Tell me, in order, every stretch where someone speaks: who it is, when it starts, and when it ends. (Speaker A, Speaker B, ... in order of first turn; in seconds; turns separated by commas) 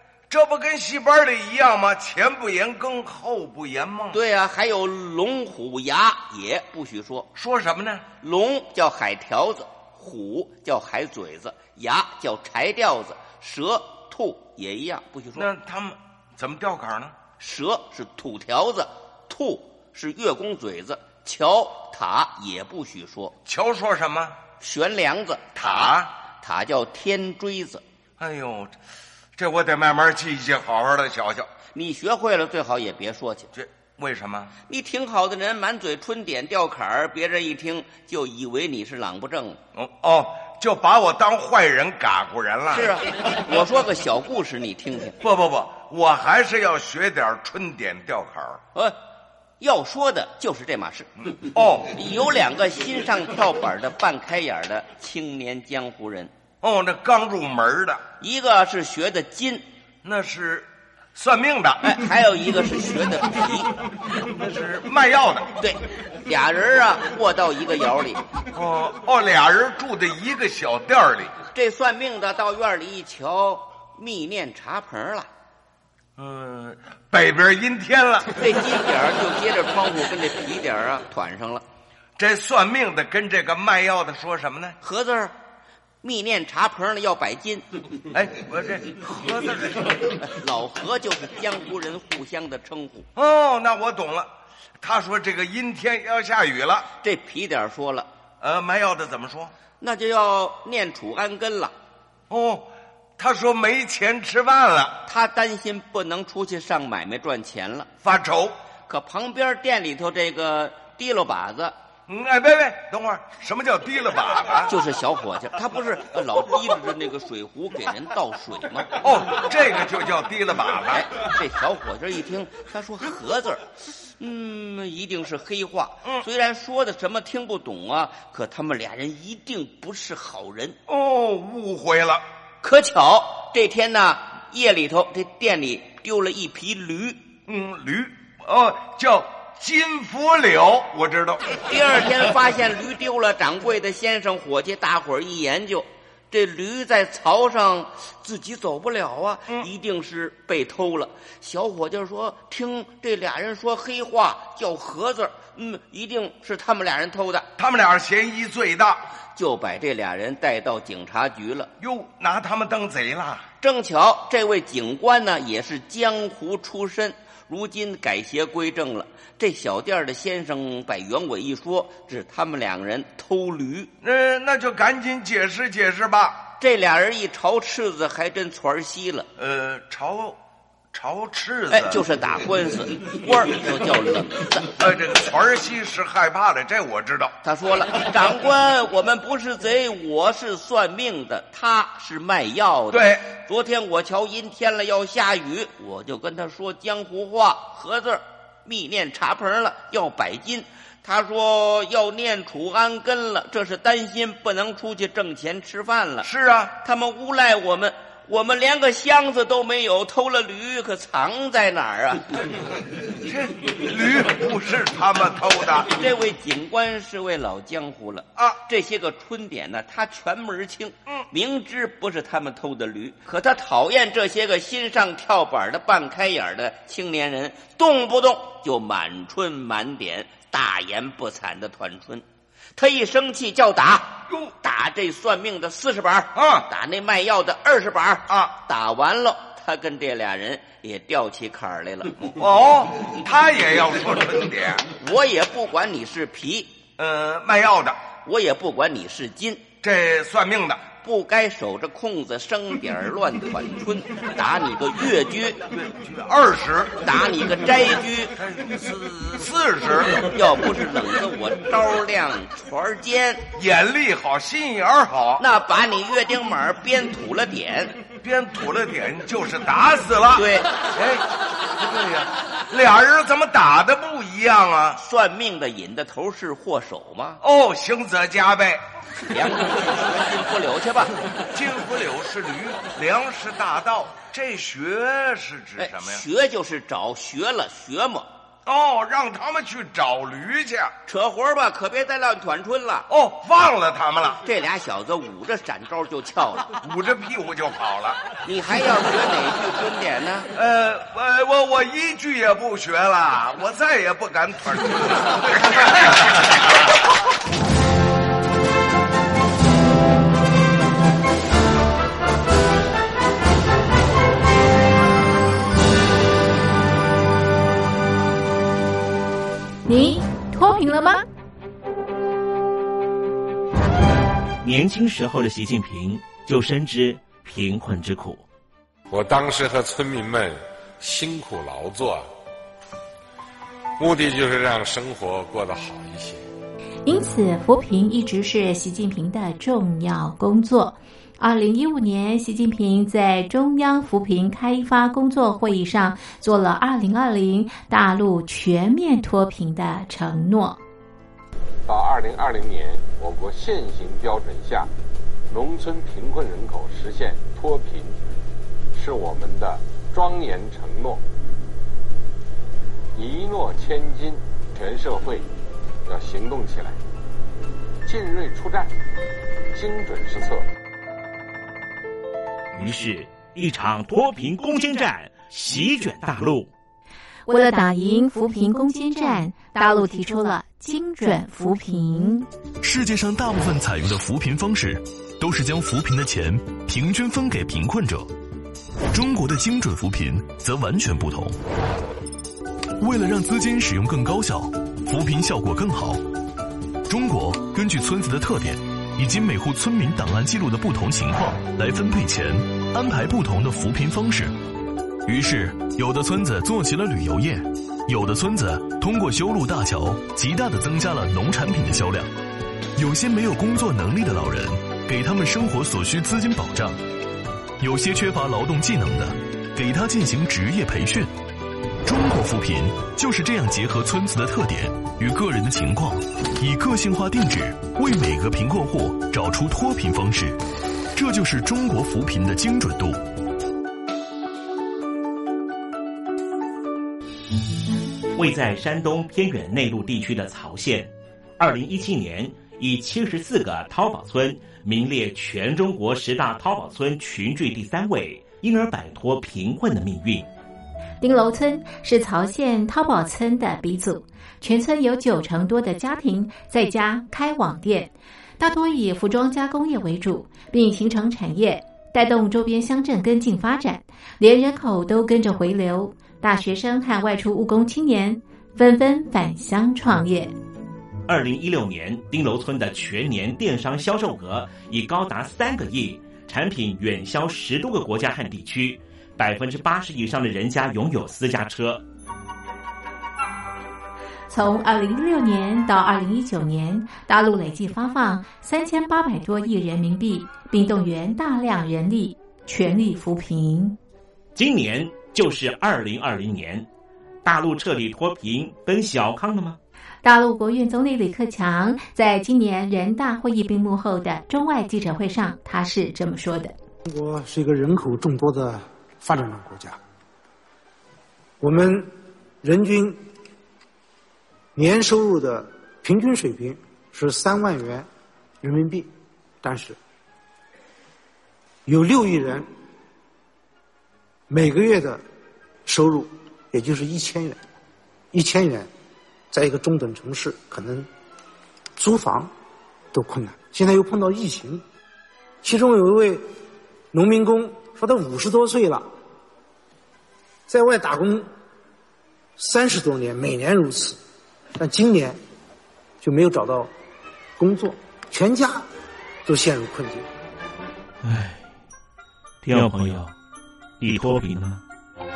Speaker A: 0.3-4.2, Speaker B: 4.1-7.3, Speaker A: 7.3-8.0, Speaker B: 8.2-15.5, Speaker A: 15.3-17.1, Speaker B: 17.4-23.4, Speaker A: 23.4-24.4, Speaker B: 24.6-27.8, Speaker A: 25.6-26.1, Speaker A: 28.2-28.7, Speaker A: 29.4-31.5, Speaker B: 31.7-33.5, Speaker A: 33.5-34.5, Speaker B: 34.7-39.6, Speaker A: 39.7-42.9, Speaker B: 42.7-45.2, Speaker A: 45.2-48.6, Speaker B: 49.6-51.1, Speaker A: 51.5-51.9, Speaker B: 51.9-56.3, Speaker A: 56.6-58.0, Speaker B: 58.2-59.6, Speaker A: 60.0-62.0, Speaker B: 61.8-63.7, Speaker A: 64.3-65.5, Speaker B: 65.6-68.2, Speaker A: 68.5-71.3, Speaker B: 71.5-75.3, Speaker A: 76.2-78.3, Speaker B: 78.3-81.6, Speaker A: 82.2-84.8, Speaker B: 84.8-85.3, Speaker B: 86.0-87.7, Speaker A: 88.1-90.0, Speaker B: 90.2-93.1, Speaker A: 93.2-96.9, Speaker B: 97.0-98.1, Speaker A: 98.4-99.5, Speaker B: 99.8-101.7, Speaker A: 102.3-105.0, Speaker B: 105.0-107.9, Speaker A: 108.0-108.5, Speaker B: 108.9-111.7, Speaker A: 112.1-114.7, Speaker B: 114.7-118.9, Speaker A: 119.0-121.0, Speaker B: 120.9-123.7, Speaker B: 124.2-130.8, Speaker A: 130.9-132.2, Speaker B: 132.6-137.2, Speaker A: 137.5-141.4, Speaker B: 141.6-157.5, Speaker A: 157.6-159.0, Speaker B: 159.3-161.7, Speaker A: 161.8-163.4, Speaker B: 163.6-173.9, Speaker A: 174.0-176.4, Speaker B: 176.6-179.3, Speaker A: 179.4-180.4, Speaker A: 180.9-182.0, Speaker B: 181.7-184.7, Speaker A: 184.8-187.3, Speaker B: 187.4-206.3, Speaker A: 192.9-193.3, Speaker A: 206.2-206.7, Speaker B: 206.8-212.3, Speaker A: 213.2-215.9, Speaker B: 216.0-232.2, Speaker B: 232.8-242.2, Speaker A: 236.3-236.7, Speaker A: 242.2-244.8, Speaker B: 245.0-246.7, Speaker A: 247.0-248.0, Speaker B: 248.2-249.6, Speaker A: 249.8-250.8, Speaker B: 251.0-255.6, Speaker A: 255.7-257.0, Speaker B: 257.0-258.3, Speaker A: 258.4-260.3, Speaker B: 260.3-263.5, Speaker A: 263.6-265.4, Speaker B: 265.4-268.0, Speaker A: 268.2-275.0, Speaker B: 270.3-270.7, Speaker B: 275.0-277.4, Speaker A: 277.4-278.8, Speaker B: 279.2-281.1, Speaker A: 281.5-286.2, Speaker B: 285.8-288.3, Speaker A: 288.6-290.9, Speaker B: 291.1-293.1, Speaker A: 293.1-294.4, Speaker B: 294.4-296.8, Speaker A: 296.8-298.2, Speaker B: 298.4-300.5, Speaker A: 300.5-306.0, Speaker C: 319.9-321.2, Speaker D: 324.6-328.4, Speaker E: 329.1-332.3, Speaker E: 334.0-336.4, Speaker C: 337.1-350.8, Speaker F: 351.9-354.9, Speaker F: 355.5-358.2, Speaker F: 358.9-361.2, Speaker F: 363.1-365.4, Speaker F: 366.1-367.0, Speaker F: 368.0-368.9, Speaker F: 369.7-370.6, Speaker D: 372.7-376.7, Speaker C: 377.5-382.5, Speaker G: 382.8-388.3, Speaker G: 389.1-391.6, Speaker G: 393.0-396.2, Speaker G: 397.1-404.5, Speaker G: 405.2-412.3, Speaker G: 412.9-417.0, Speaker G: 417.8-421.3, Speaker G: 422.0-430.6, Speaker G: 431.1-433.2, Speaker D: 438.3-450.5, Speaker C: 451.2-470.5, Speaker D: 471.3-482.0, Speaker C: 484.5-494.0, Speaker D: 494.5-496.9, Speaker D: 497.4-499.8, Speaker C: 500.2-506.7, Speaker H: 507.1-510.0, Speaker H: 511.6-512.1, Speaker H: 512.6-513.2, Speaker H: 514.8-518.0, Speaker H: 518.6-519.1, Speaker H: 519.6-520.0, Speaker H: 521.9-522.7, Speaker H: 524.5-525.2, Speaker H: 525.9-527.6, Speaker H: 528.3-528.9, Speaker H: 529.5-531.1, Speaker H: 532.0-532.5, Speaker H: 533.1-534.8, Speaker H: 535.6-536.4, Speaker H: 537.1-539.0, Speaker H: 540.7-541.5, Speaker H: 542.6-544.2, Speaker H: 544.8-545.4, Speaker H: 546.2-546.9, Speaker H: 547.6-548.8, Speaker H: 549.5-550.2, Speaker D: 551.2-551.6, Speaker D: 552.6-553.3, Speaker D: 554.0-554.8